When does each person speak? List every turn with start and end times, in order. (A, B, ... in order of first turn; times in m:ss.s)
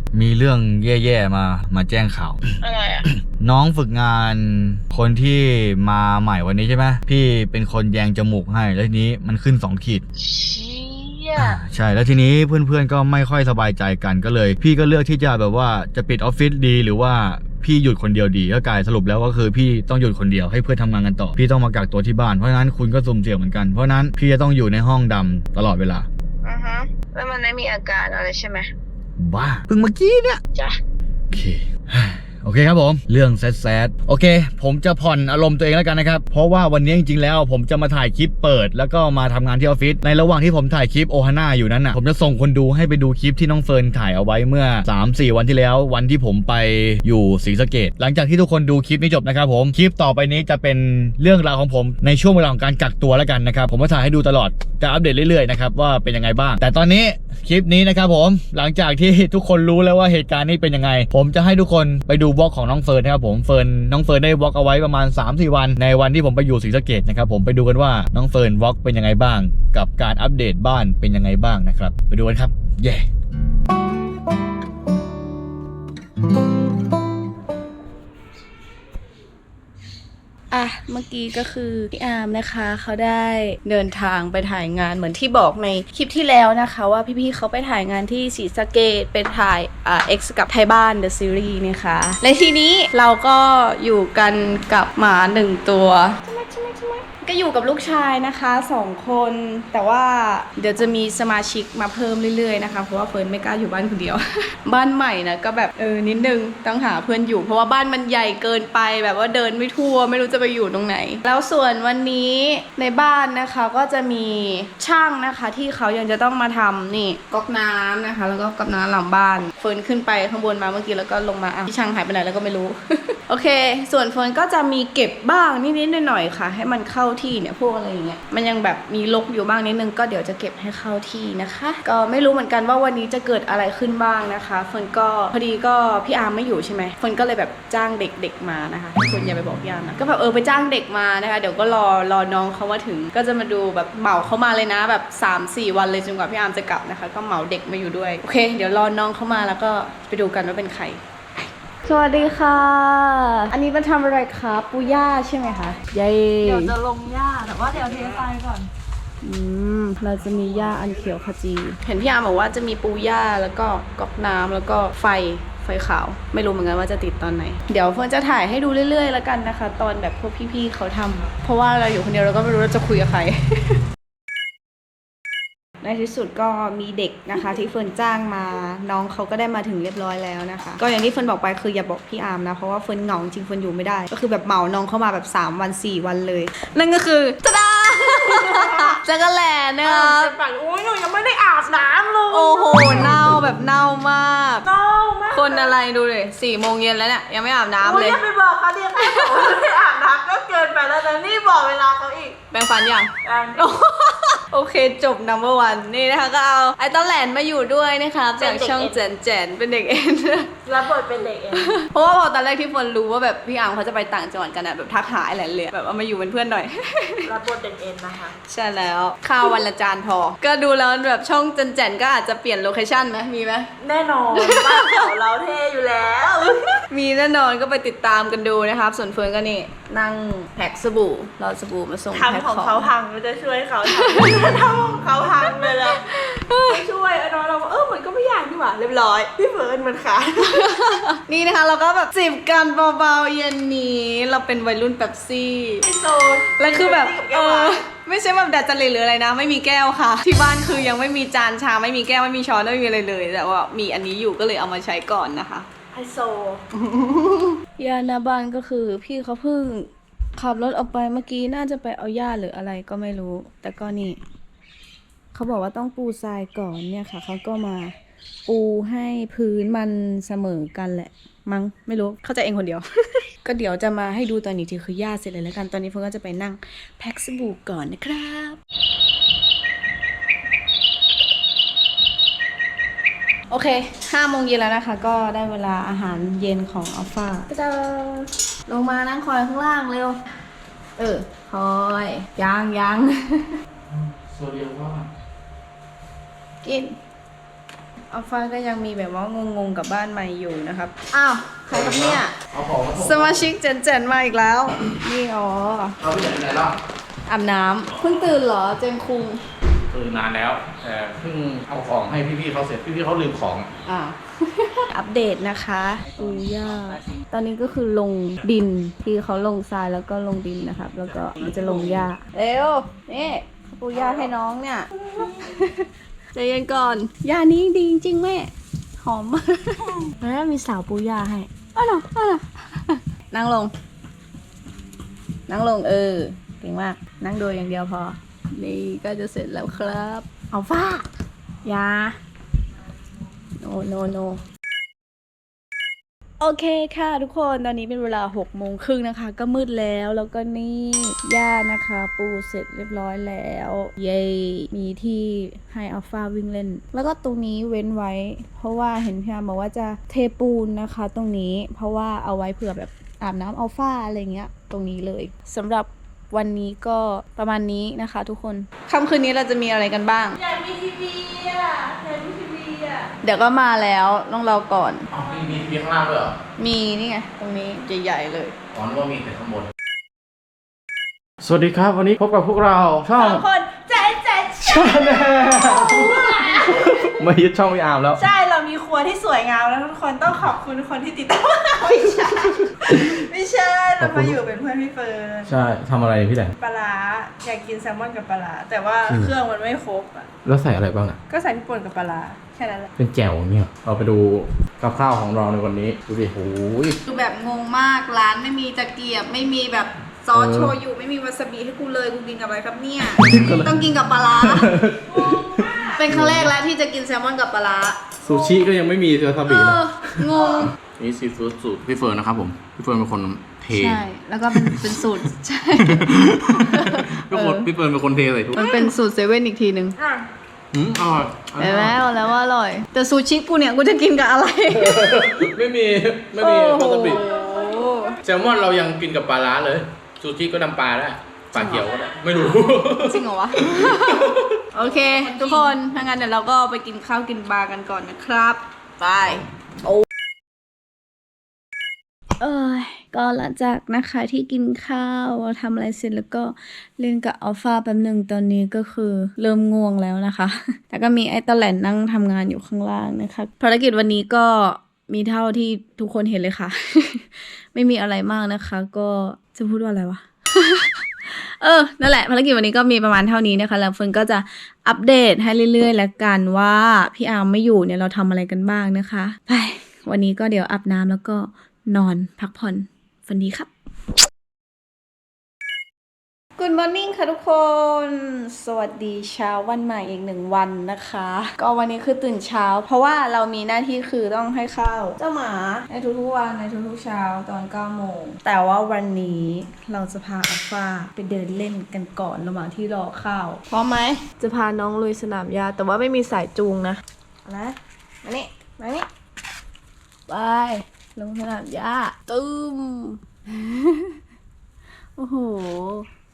0:00.1-0:02.4 A
0:02.6-0:03.1 B
0:03.1-0:10.0 A
0:10.2-0:11.6 B
0:11.4-0:26.1 A
0:26.4-0:28.7 B
0:29.2-0:30.4 A
0:31.3-1:13.1 A
1:20.5-1:36.2 C
1:36.2-1:37.1 D
1:37.2-2:31.0 C
2:31.8-2:36.7 C
2:36.4-2:38.7 D
2:39.2-2:53.8 C
2:55.8-3:10.3 C
3:07.9-3:09.0 D
3:09.8-3:13.4 D
3:12.3-3:14.7 C
3:14.6-3:15.8 D
3:15.3-3:18.2 C
3:17.8-3:22.4 D
3:19.0-3:19.5 C
3:22.5-3:30.5 C
3:23.2-3:23.8 D
3:28.4-3:29.0 D
3:30.6-3:31.8 D
3:31.5-3:37.3 C
3:37.2-3:38.3 D
3:38.4-3:43.7 C
3:43.8-3:46.8 D
3:44.3-3:45.1 C
3:46.9-3:52.9 C
3:52.1-3:56.0 D
3:53.8-3:54.5 C
3:55.4-3:56.8 C
3:56.6-4:00.7 D
4:00.4-4:05.9 C
4:05.8-4:07.8 D
4:06.5-4:15.7 C
4:15.9-4:16.6 D
4:17.8-4:24.2 C
4:25.3-4:27.9 C
4:28.5-4:32.8 C
4:33.4-4:38.6 C
4:43.5-4:50.2 C
4:51.0-4:53.5 C
4:53.9-4:55.1 E
4:56.6-4:57.0 C
4:58.1-5:02.3 C
5:01.7-5:03.5 E
5:03.0-5:06.0 C
5:06.0-5:06.8 E
5:07.3-5:09.4 C
5:09.9-5:13.7 E
5:13.8-5:33.7 C
5:35.5-5:40.6 C
5:41.6-5:42.2 C
5:43.6-5:44.4 C
5:46.4-6:10.4 C
6:10.3-6:13.1 D
6:13.2-6:15.1 C
6:15.1-6:16.4 E
6:16.6-6:18.5 C
6:18.7-6:19.7 E
6:21.4-6:23.4 E
6:23.2-6:25.0 D
6:24.6-6:28.2 E
6:25.6-6:26.8 D
6:28.2-6:32.2 D
6:31.8-6:32.6 C
6:32.4-6:33.2 E
6:32.9-6:34.5 D
6:34.0-6:34.4 E
6:35.4-6:36.5 E
6:36.6-6:39.2 D
6:39.1-6:39.3 E
6:40.4-6:41.2 E
6:41.3-6:42.9 C
6:43.0-6:47.0 E
6:47.0-6:55.3 C
6:50.3-6:50.8 E
6:53.2-6:53.8 E
6:54.4-6:56.5 E
6:55.9-6:58.6 C
6:58.2-7:00.2 E
6:59.4-7:00.7 C
7:01.0-7:04.0 E
7:03.7-7:07.7 C
7:04.5-7:05.0 E
7:05.8-7:08.6 E
7:08.5-7:10.0 C
7:10.0-7:10.2 D
7:10.7-7:12.0 E
7:11.6-7:15.1 C
7:14.7-7:17.2 E
7:16.4-7:18.1 C
7:17.1-7:18.1 D
7:18.2-7:24.5 E
7:21.5-7:21.8 C
7:23.0-7:30.0 C
7:24.8-7:25.8 D
7:32.4-8:03.7 C
8:06.6-8:24.3 C
8:24.4-8:27.0 D
8:27.4-8:29.0 C
8:30.3-8:34.2 C
8:35.2-8:36.1 C